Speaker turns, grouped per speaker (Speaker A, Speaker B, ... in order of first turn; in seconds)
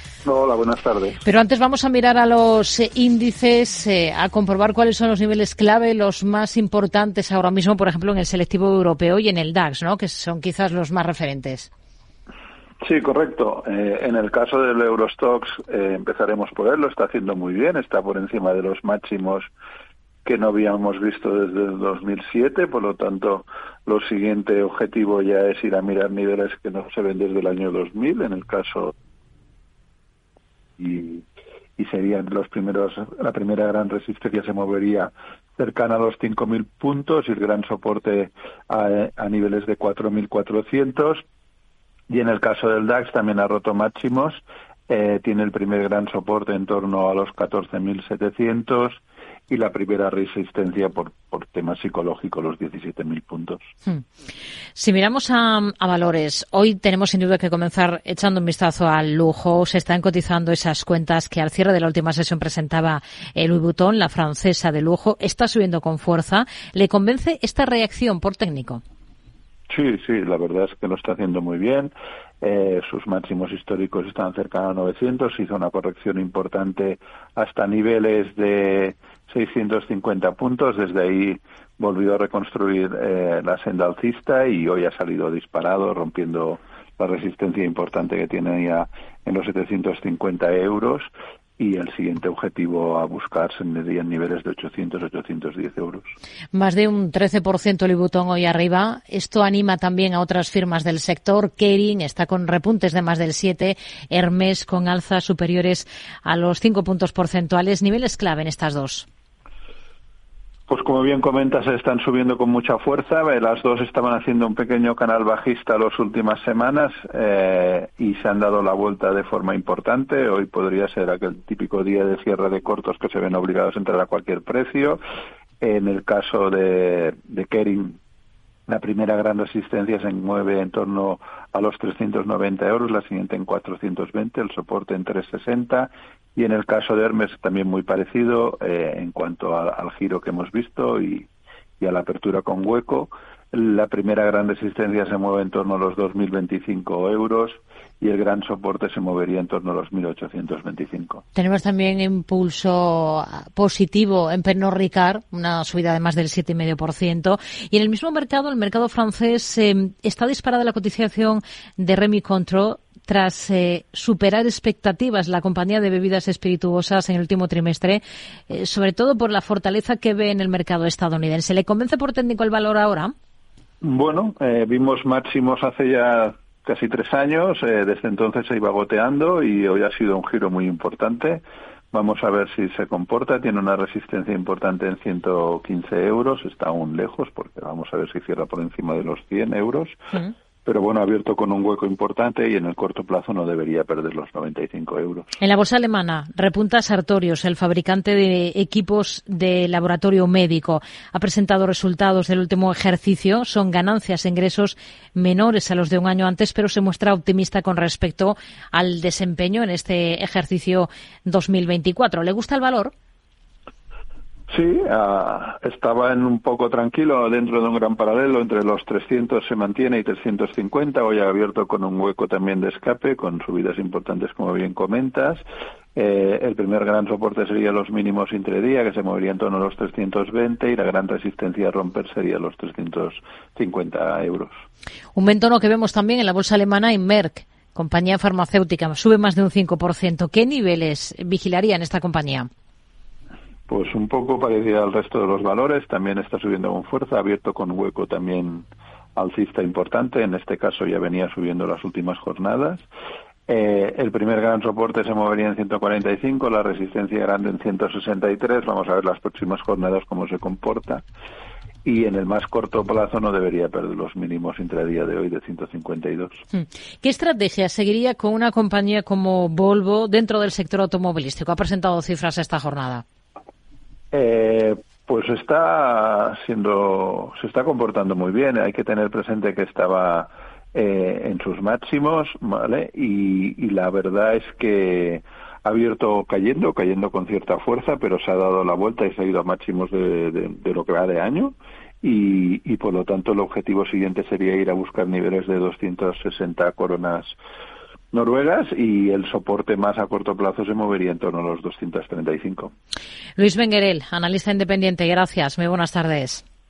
Speaker A: 0.2-1.2, 12.8-19.5, 20.2-28.9, 30.8-31.2, 31.8-41.2, 42.1-53.6, 69.7-96.1, 110.7-125.0, 125.6-128.0, 128.7-141.3, 141.8-151.2, 173.8-190.0, 190.6-195.4, 214.5-225.4, 225.9-234.5, 243.7-252.9, 253.5-261.0, 261.8-266.4, 274.1-297.4, 298.1-302.7
Speaker B: 1.2-11.7, 54.8-68.8, 96.5-109.1, 151.3-173.1, 195.4-212.9, 235.1-242.5, 266.5-273.0, 303.4-306.4